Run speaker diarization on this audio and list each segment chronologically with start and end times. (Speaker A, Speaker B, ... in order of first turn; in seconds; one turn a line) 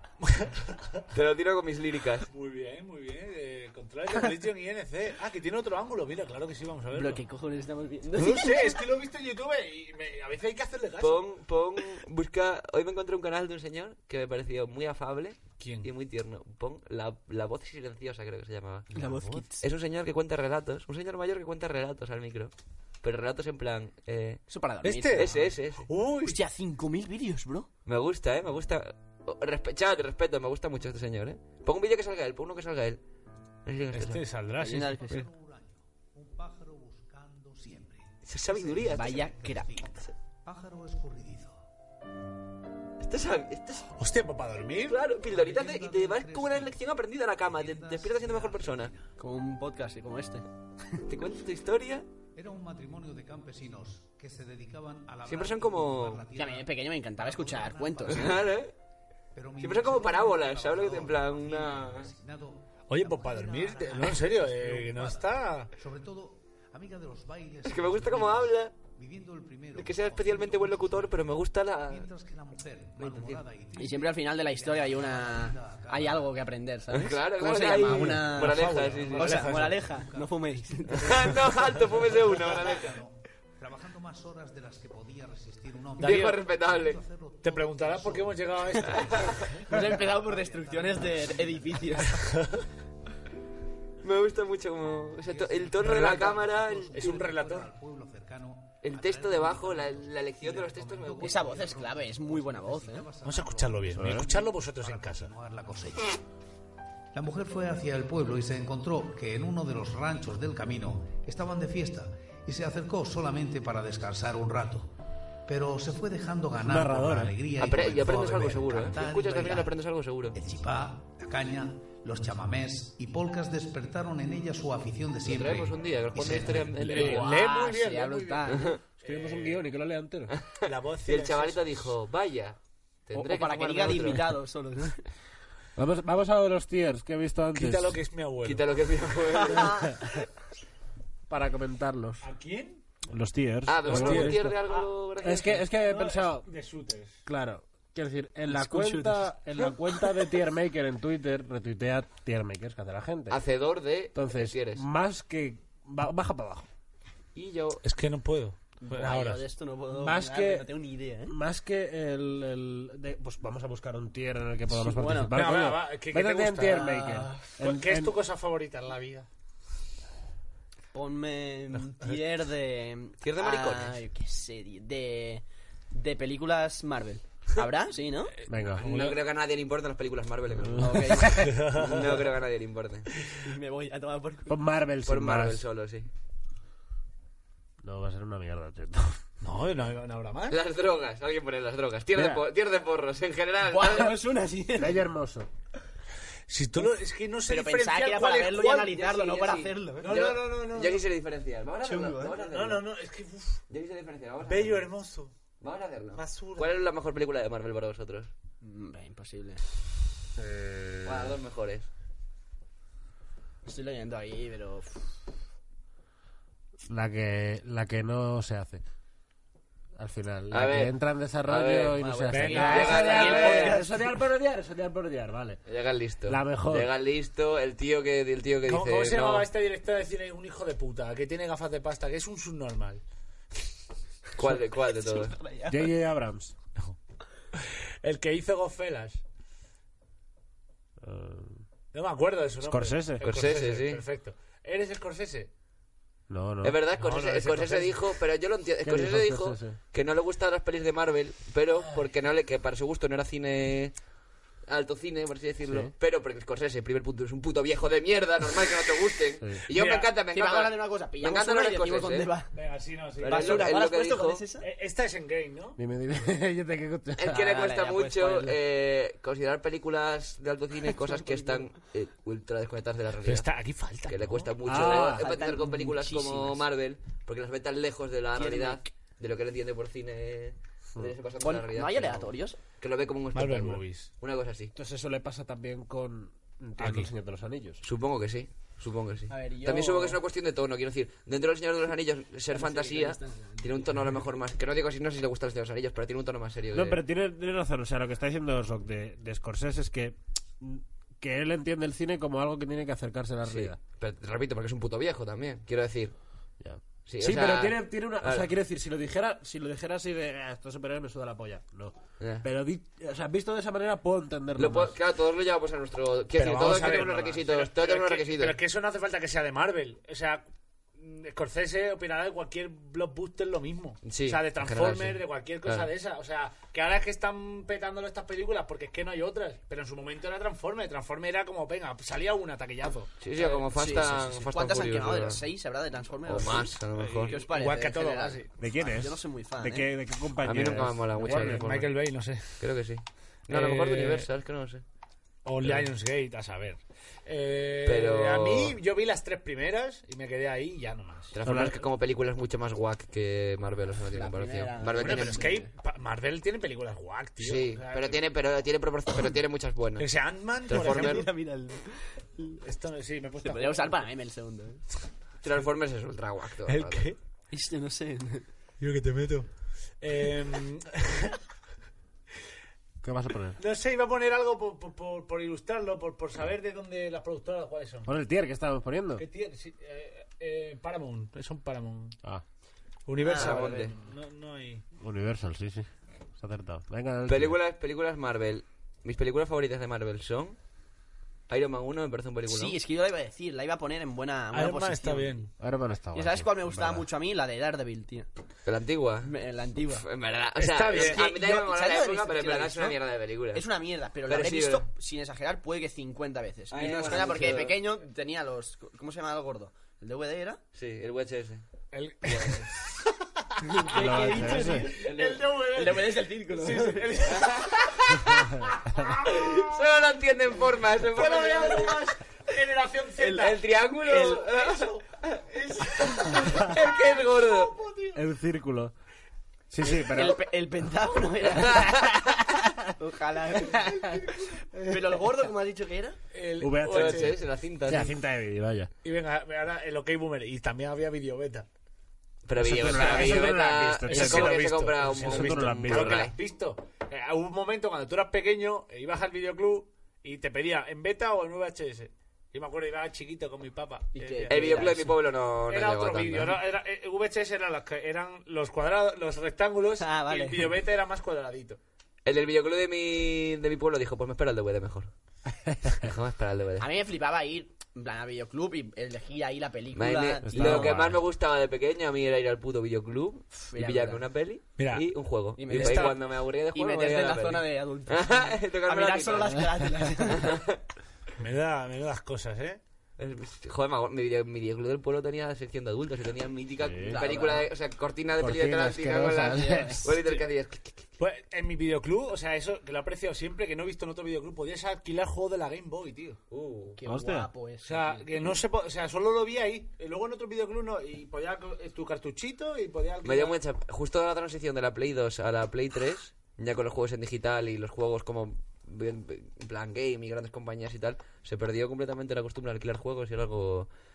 Speaker A: 0.2-1.0
Speaker B: 1.1-2.3
Speaker A: 2.3-7.2
Speaker C: 6.9-8.8
Speaker A: 8.2-11.2
Speaker B: 11.0-18.9
Speaker A: 15.6-15.9
Speaker A: 18.9-19.4
Speaker C: 18.9-19.6
Speaker B: 19.6-22.5
Speaker B: 23.0-24.4
Speaker C: 24.5-25.3
Speaker A: 24.8-26.4
Speaker B: 25.1-25.8
Speaker C: 26.2-27.7
Speaker B: 27.9-33.0
Speaker B: 33.6-34.2
Speaker A: 33.9-35.2
Speaker C: 34.6-35.3
Speaker D: 35.0-41.6
Speaker B: 38.2-39.2
Speaker C: 38.9-39.8
Speaker B: 43.0-43.9
Speaker A: 44.0-45.0
Speaker B: 44.9-48.9
Speaker D: 45.1-46.9
Speaker D: 47.4-49.0
Speaker C: 49.2-51.0
Speaker B: 51.1-52.0
Speaker D: 52.3-58.6
Speaker B: 55.2-56.2
Speaker C: 56.3-58.4
Speaker B: 58.1-58.7
Speaker D: 59.3-76.4
Speaker B: 59.6-62.1
Speaker A: 62.9-65.7
Speaker B: 67.6-68.7
Speaker B: 69.7-72.1
Speaker B: 73.0-73.4
Speaker C: 73.8-81.4
Speaker B: 76.9-79.5
Speaker A: 77.8-79.8
Speaker D: 79.5-92.0
Speaker B: 80.9-83.0
Speaker B: 86.0-87.0
Speaker A: 86.0-86.4
Speaker A: 87.4-89.6
Speaker C: 89.6-92.2
Speaker A: 92.2-92.6
Speaker B: 94.0-97.2
Speaker D: 95.2-106.2
Speaker A: 95.8-96.3
Speaker A: 96.9-97.7
Speaker B: 98.8-101.5
Speaker C: 101.2-103.1
Speaker A: 103.2-105.3
Speaker E: 103.9-104.3
Speaker D: 107.1-114.9
Speaker D: 115.5-119.8
Speaker E: 116.5-117.3
Speaker B: 117.6-120.3
Speaker D: 120.3-126.8
Speaker B: 125.2-127.3
Speaker C: 126.4-128.7
Speaker A: 126.8-129.6
Speaker B: 128.5-128.8
Speaker E: 129.0-130.3
Speaker B: 130.3-134.3
Speaker A: 130.6-131.9
Speaker C: 133.1-135.0
Speaker E: 135.8-138.0
Speaker A: 137.5-138.6
Speaker B: 138.4-139.9
Speaker C: 139.4-139.9
Speaker E: 141.3-142.2
Speaker A: 142.2-142.8
Speaker E: 143.1-144.6
Speaker B: 143.7-145.6
Speaker A: 143.8-147.2
Speaker E: 145.2-146.5
Speaker E: 147.2-153.4
Speaker C: 148.4-149.3
Speaker B: 153.3-154.8
Speaker E: 154.1-156.7
Speaker B: 157.3-157.8
Speaker A: 157.8-159.4
Speaker C: 158.8-161.3
Speaker E: 159.9-160.7
Speaker E: 161.3-168.2
Speaker C: 164.7-165.5
Speaker A: 165.3-167.0
Speaker C: 166.7-167.5
Speaker A: 167.6-169.3
Speaker C: 170.9-178.3
Speaker B: 173.2-174.0
Speaker E: 178.5-179.1
Speaker A: 178.6-179.1
Speaker B: 178.8-183.1
Speaker E: 180.6-181.5
Speaker C: 180.8-181.5
Speaker A: 181.3-182.2
Speaker C: 183.4-184.6
Speaker E: 184.5-185.6
Speaker B: 185.0-186.1
Speaker E: 187.8-189.2
Speaker A: 189.4-190.6
Speaker B: 190.5-194.2
Speaker E: 192.1-192.4
Speaker C: 193.6-195.1
Speaker E: 194.8-195.5
Speaker A: 196.5-199.0
Speaker C: 197.5-200.1
Speaker B: 198.9-202.8
Speaker A: 200.0-201.0
Speaker C: 201.8-202.4
Speaker A: 202.4-203.6
Speaker B: 203.7-204.9
Speaker A: 204.4-205.3
Speaker B: 205.6-208.3
Speaker A: 206.1-206.7
Speaker C: 208.6-209.6
Speaker E: 210.3-211.4
Speaker B: 211.0-211.9
Speaker C: 213.6-215.2
Speaker E: 216.9-218.8
Speaker E: 219.9-225.6
Speaker B: 220.5-220.9
Speaker B: 221.4-223.8
Speaker C: 222.0-224.0
Speaker A: 222.3-223.7
Speaker B: 225.7-229.5
Speaker E: 226.2-226.9
Speaker A: 228.7-233.0
Speaker B: 234.4-235.3
Speaker C: 234.9-235.9
Speaker E: 235.7-236.5
Speaker A: 237.5-239.2
Speaker E: 241.0-241.6
Speaker A: 241.9-245.5
Speaker E: 242.6-243.3
Speaker B: 243.2-244.0
Speaker E: 246.3-246.8
Speaker B: 246.6-253.9
Speaker A: 247.0-248.0
Speaker E: 248.8-249.8
Speaker B: 254.7-262.3
Speaker E: 255.7-255.9
Speaker A: 259.7-260.1
Speaker C: 260.3-262.5
Speaker A: 262.5-263.7
Speaker B: 263.2-264.4
Speaker C: 263.2-264.6
Speaker A: 264.6-265.8
Speaker E: 265.8-267.6
Speaker B: 267.2-273.5
Speaker C: 267.4-268.6
Speaker C: 270.8-271.6
Speaker A: 273.2-274.5
Speaker B: 274.1-284.7
Speaker E: 274.6-275.3
Speaker C: 274.8-276.6
Speaker C: 278.3-278.9
Speaker C: 281.4-282.6
Speaker A: 283.3-284.1
Speaker E: 284.7-287.8
Speaker A: 286.8-287.1
Speaker B: 287.8-297.0
Speaker C: 289.3-290.2
Speaker C: 292.5-294.0
Speaker E: 296.7-303.8
Speaker B: 303.4-306.1
Speaker E: 306.6-314.9
Speaker B: 307.1-308.5
Speaker B: 312.2-312.4
Speaker B: 314.6-318.6
Speaker A: 316.3-320.4
Speaker A: 321.0-333.7
Speaker B: 324.0-325.9
Speaker B: 333.2-335.4
Speaker C: 333.7-339.9
Speaker B: 336.2-337.4
Speaker A: 336.9-338.5
Speaker E: 338.6-341.9
Speaker B: 340.4-341.9
Speaker A: 341.2-342.6
Speaker B: 342.6-344.8
Speaker A: 343.5-344.3
Speaker A: 345.4-351.3
Speaker B: 347.8-348.8
Speaker B: 351.3-355.6
Speaker E: 351.4-351.8
Speaker C: 354.1-355.6
Speaker A: 355.0-358.2
Speaker B: 357.4-360.1
Speaker A: 360.0-361.3
Speaker B: 360.6-361.3
Speaker C: 360.7-362.6
Speaker A: 362.6-364.0
Speaker C: 363.4-364.8
Speaker B: 365.4-367.1
Speaker A: 366.6-367.2
Speaker C: 367.5-368.5
Speaker A: 368.8-369.5
Speaker A: 370.0-371.4
Speaker E: 373.0-373.6
Speaker A: 373.6-378.1
Speaker E: 378.1-379.2
Speaker A: 379.2-382.1
Speaker A: 383.1-384.8
Speaker C: 383.2-383.8
Speaker B: 383.3-383.9
Speaker E: 385.0-387.6
Speaker B: 387.2-390.6
Speaker B: 391.5-392.8
Speaker C: 392.5-395.4
Speaker A: 394.5-395.5
Speaker E: 395.6-397.1
Speaker C: 396.1-398.3
Speaker B: 398.6-399.3
Speaker C: 399.2-400.1
Speaker B: 399.9-403.6
Speaker A: 400.6-401.3
Speaker C: 400.9-403.0
Speaker C: 403.5-410.6
Speaker B: 404.2-404.8
Speaker B: 406.7-407.8
Speaker B: 410.7-411.6
Speaker A: 411.9-412.9
Speaker C: 413.6-417.1
Speaker A: 413.9-417.8
Speaker E: 413.9-414.9
Speaker B: 415.1-415.3
Speaker B: 417.3-418.6
Speaker B: 419.2-422.0
Speaker A: 421.1-423.6
Speaker C: 421.3-421.9
Speaker C: 423.2-423.5
Speaker B: 423.4-425.4
Speaker C: 424.0-424.4
Speaker A: 424.2-428.2
Speaker B: 426.0-427.7
Speaker E: 428.1-428.9
Speaker E: 429.7-430.4
Speaker C: 429.9-432.3
Speaker B: 431.4-432.4
Speaker C: 433.0-436.2
Speaker A: 436.3-437.4
Speaker E: 436.6-438.9
Speaker B: 436.9-438.1
Speaker A: 439.0-441.6
Speaker B: 442.4-446.3
Speaker E: 442.6-446.3
Speaker A: 442.9-454.9
Speaker C: 454.1-455.1
Speaker B: 454.5-456.6
Speaker A: 455.7-461.8
Speaker C: 460.0-460.8
Speaker B: 462.2-465.1
Speaker E: 465.7-465.9
Speaker B: 466.0-466.9
Speaker C: 466.8-471.1
Speaker B: 469.9-480.8
Speaker E: 470.5-471.2
Speaker C: 473.5-474.2
Speaker A: 474.8-475.1
Speaker C: 475.6-480.6
Speaker A: 475.6-476.2
Speaker A: 481.4-482.8
Speaker B: 483.2-491.0
Speaker E: 486.8-487.2
Speaker C: 487.0-487.7
Speaker E: 488.4-490.1
Speaker A: 491.2-496.4
Speaker B: 496.5-497.0
Speaker C: 497.0-498.6
Speaker E: 497.0-497.5
Speaker A: 497.8-503.6
Speaker B: 503.2-513.9